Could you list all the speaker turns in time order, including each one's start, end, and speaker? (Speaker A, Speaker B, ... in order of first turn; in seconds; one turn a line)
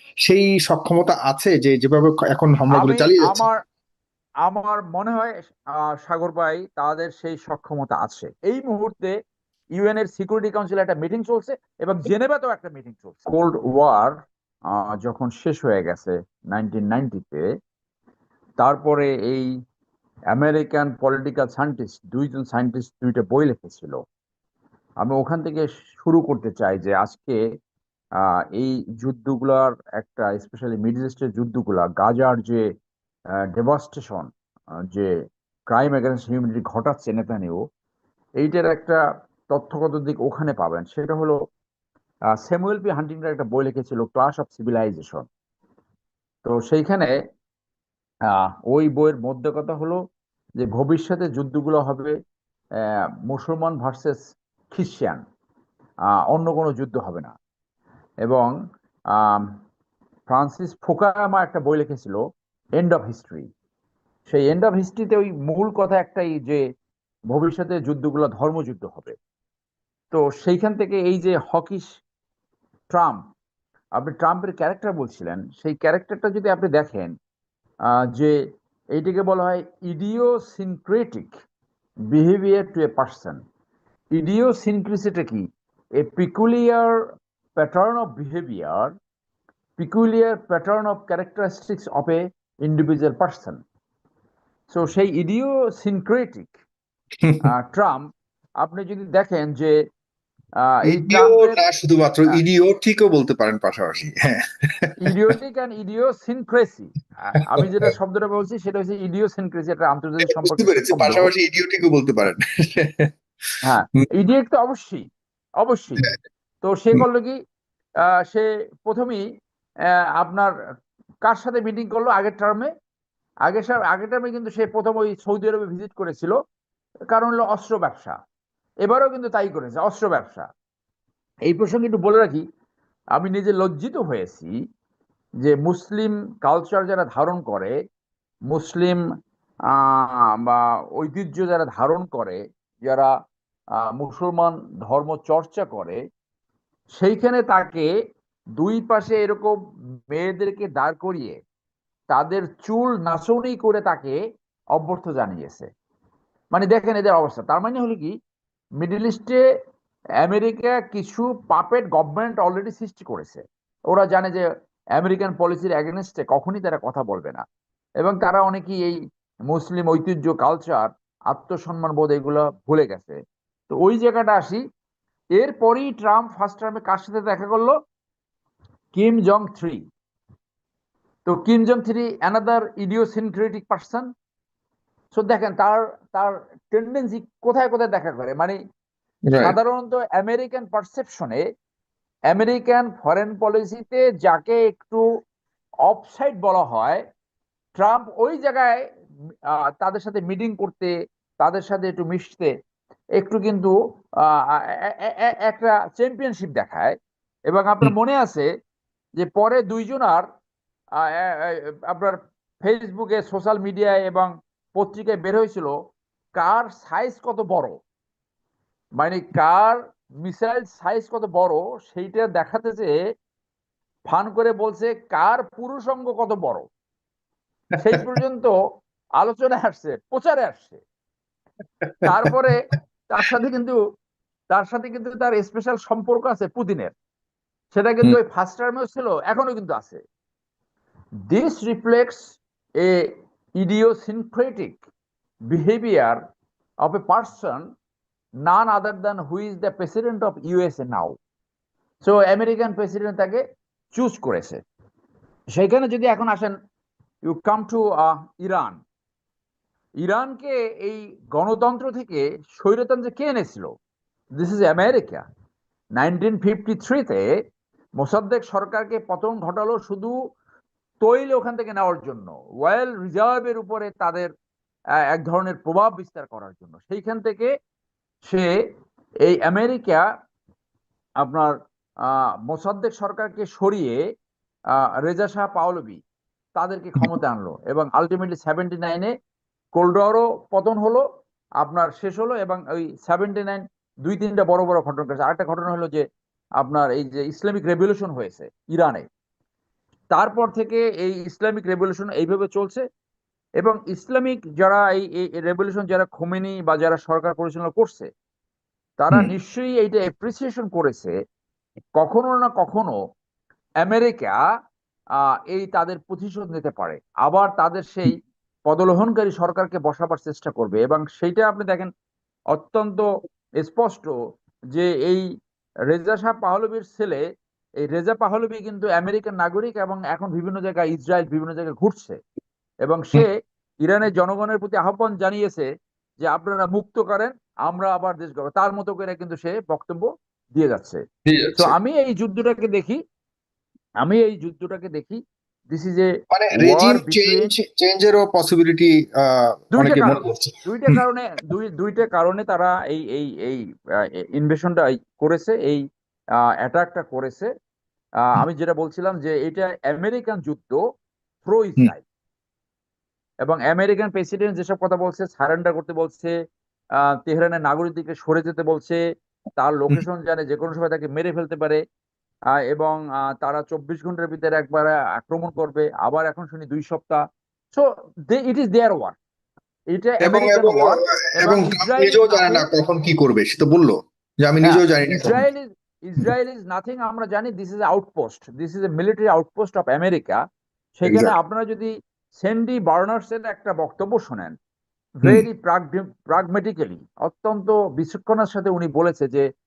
Speaker A: 0.2-3.4
Speaker B: 2.7-3.6
Speaker B: 4.4-9.1
Speaker B: 9.7-17.4
Speaker B: 18.6-19.5
Speaker B: 20.3-24.0
Speaker B: 25.0-27.4
Speaker B: 28.2-32.7
Speaker B: 33.5-34.3
Speaker B: 34.9-35.1
Speaker B: 35.7-37.6
Speaker B: 38.4-39.0
Speaker B: 39.5-41.4
Speaker B: 42.3-45.2
Speaker B: 46.4-47.1
Speaker B: 48.3-50.0
Speaker B: 50.6-52.1
Speaker B: 52.8-54.2
Speaker B: 54.7-55.2
Speaker B: 56.3-57.3
Speaker B: 58.2-58.5
Speaker B: 59.1-59.5
Speaker B: 60.3-62.2
Speaker B: 62.8-63.5
Speaker B: 64.3-66.6
Speaker B: 67.3-69.1
Speaker B: 70.1-71.8
Speaker B: 72.9-73.2
Speaker B: 74.0-77.1
Speaker B: 77.9-78.3
Speaker B: 78.9-81.3
Speaker B: 82.1-83.4
Speaker B: 84.1-88.9
Speaker B: 89.8-93.6
Speaker B: 94.7-96.5
Speaker B: 97.4-98.1
Speaker B: 98.6-99.8
Speaker B: 100.6-101.6
Speaker A: 100.9-105.1
Speaker B: 105.0-111.3
Speaker A: 110.4-113.1
Speaker B: 113.6-115.1
Speaker B: 115.6-116.0
Speaker B: 116.6-117.4
Speaker B: 118.0-119.2
Speaker B: 119.9-120.5
Speaker B: 121.2-122.7
Speaker B: 123.5-126.3
Speaker B: 127.1-128.2
Speaker B: 128.8-130.5
Speaker B: 131.5-132.4
Speaker B: 133.1-134.5
Speaker B: 135.4-137.7
Speaker B: 138.5-139.0
Speaker B: 139.7-143.1
Speaker B: 143.8-146.0
Speaker B: 146.9-147.9
Speaker B: 148.6-149.5
Speaker B: 150.1-151.4
Speaker B: 152.1-154.2
Speaker B: 154.7-155.7
Speaker B: 156.5-158.1
Speaker B: 158.8-159.4
Speaker B: 160.2-167.4
Speaker B: 168.0-169.0
Speaker B: 169.5-173.2
Speaker B: 173.7-174.6
Speaker B: 175.4-177.7
Speaker B: 178.9-179.8
Speaker B: 181.2-184.1
Speaker B: 185.1-188.6
Speaker A: 189.3-189.6
Speaker B: 189.4-191.4
Speaker B: 192.3-195.0
Speaker B: 195.8-197.0
Speaker B: 197.8-198.8
Speaker B: 199.8-202.5
Speaker B: 203.2-206.9
Speaker B: 207.5-208.5
Speaker B: 209.2-210.2
Speaker B: 210.9-215.7
Speaker B: 216.3-217.8
Speaker B: 219.0-222.9
Speaker B: 224.1-226.6
Speaker B: 227.8-228.5
Speaker B: 229.2-230.8
Speaker A: 231.8-232.3
Speaker B: 232.0-232.6
Speaker B: 233.1-233.8
Speaker B: 234.5-236.9
Speaker B: 237.7-240.0
Speaker B: 241.3-244.8
Speaker B: 245.5-246.2
Speaker B: 246.8-247.7
Speaker B: 248.4-251.2
Speaker B: 252.0-253.4
Speaker B: 253.9-254.6
Speaker B: 255.5-256.5
Speaker B: 257.2-258.8
Speaker B: 260.0-263.7
Speaker B: 264.4-265.2
Speaker B: 265.9-267.2
Speaker B: 268.0-270.1
Speaker B: 271.0-274.3
Speaker B: 275.1-277.5
Speaker B: 279.2-280.0
Speaker B: 281.2-284.0
Speaker B: 284.7-286.0
Speaker B: 286.6-289.1
Speaker B: 289.8-291.0
Speaker B: 291.6-296.0
Speaker B: 296.6-299.0
Speaker B: 300.1-302.8
Speaker B: 303.6-308.1
Speaker B: 309.0-311.1
Speaker B: 311.9-312.9
Speaker B: 313.8-314.4
Speaker B: 315.2-321.9
Speaker B: 322.5-323.1
Speaker B: 323.6-324.1
Speaker B: 324.7-325.2
Speaker B: 325.9-327.2
Speaker B: 327.8-332.2
Speaker B: 332.8-335.7
Speaker B: 336.2-341.0
Speaker A: 341.2-341.7
Speaker B: 341.6-343.0
Speaker B: 344.0-347.5
Speaker A: 346.3-351.0
Speaker B: 349.7-353.6
Speaker B: 354.2-355.8
Speaker B: 356.4-357.5
Speaker B: 358.2-360.8
Speaker B: 361.4-362.0
Speaker B: 363.4-366.3
Speaker B: 367.0-369.0
Speaker B: 369.6-371.8
Speaker B: 372.6-377.2
Speaker B: 377.7-379.2
Speaker B: 379.9-382.7
Speaker A: 380.2-385.4
Speaker B: 384.6-390.4
Speaker B: 391.0-394.5
Speaker A: 391.0-391.3
Speaker B: 395.2-399.4